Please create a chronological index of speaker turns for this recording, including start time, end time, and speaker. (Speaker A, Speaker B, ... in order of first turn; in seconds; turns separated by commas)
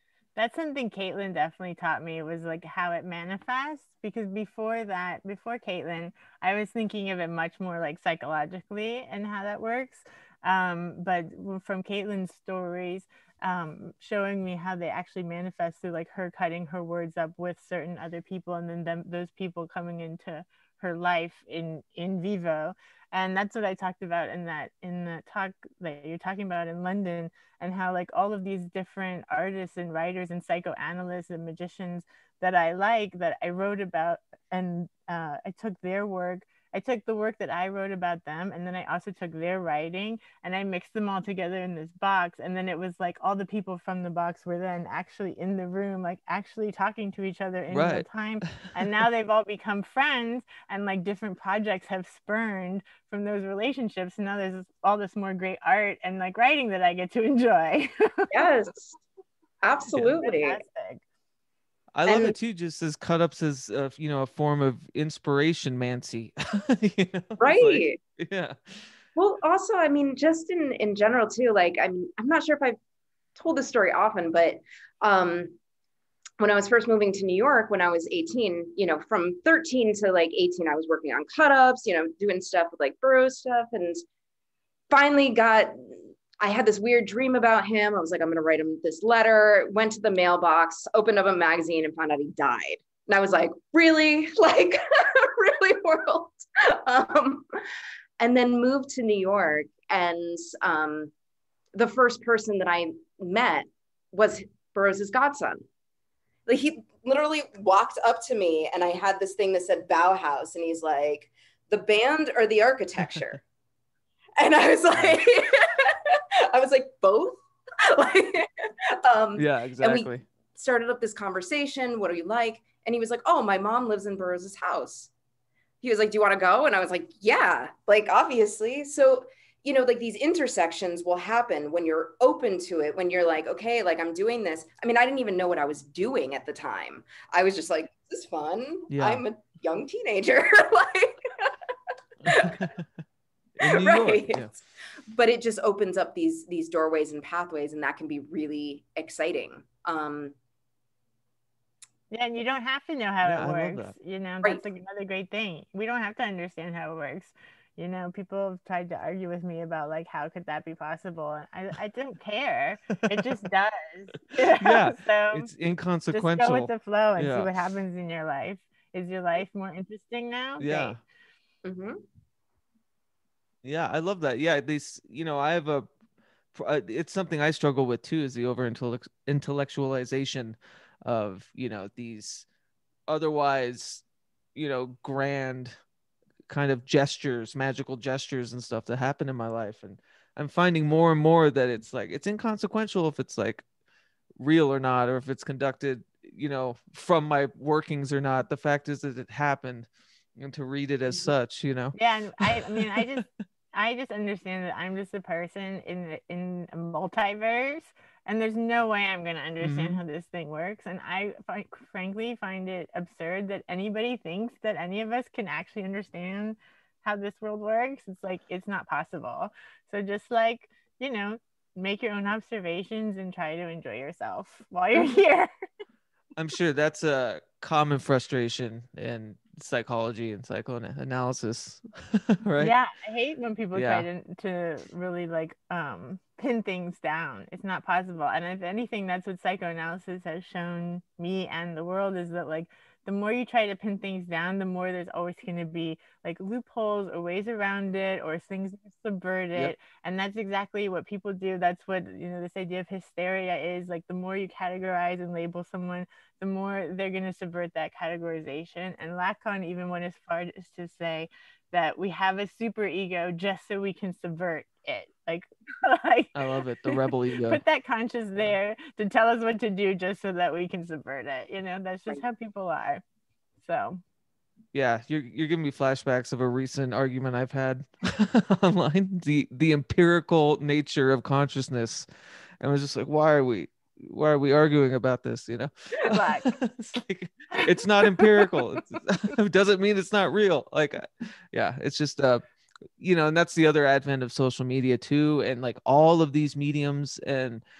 Speaker A: 0.3-58.3, Speaker B: 47.7-48.6, Speaker C: 58.3-59.0, Speaker C: 59.6-60.6, Speaker A: 60.2-61.0, Speaker B: 61.9-68.9, Speaker C: 62.1-62.3, Speaker C: 67.4-68.0, Speaker C: 69.2-72.8, Speaker C: 73.3-75.5, Speaker C: 76.4-84.0, Speaker C: 84.9-97.4, Speaker C: 98.2-101.1, Speaker C: 101.7-105.6, Speaker C: 106.5-113.4, Speaker C: 114.4-118.5, Speaker C: 119.0-125.1, Speaker B: 119.4-120.2, Speaker C: 125.8-141.5, Speaker B: 138.9-139.2, Speaker B: 142.2-142.8, Speaker C: 142.2-142.7, Speaker B: 143.6-144.5, Speaker C: 143.6-144.6, Speaker C: 145.1-150.3, Speaker A: 152.1-165.5, Speaker B: 153.2-153.9, Speaker B: 164.6-167.5, Speaker A: 166.1-171.0, Speaker B: 170.6-171.0, Speaker C: 171.6-172.0, Speaker B: 173.6-175.9, Speaker B: 176.5-182.4, Speaker B: 183.1-184.0, Speaker B: 184.5-185.8, Speaker B: 186.5-193.6, Speaker B: 194.4-201.9, Speaker A: 201.9-225.5, Speaker B: 202.5-203.2, Speaker B: 209.6-210.0, Speaker B: 226.3-232.7, Speaker A: 232.6-266.3, Speaker B: 233.7-234.1, Speaker B: 266.3-267.6, Speaker A: 266.9-273.0, Speaker A: 273.6-274.0, Speaker B: 274.7-282.1, Speaker B: 282.6-292.4, Speaker A: 286.0-286.5, Speaker A: 287.6-288.6, Speaker B: 293.0-297.6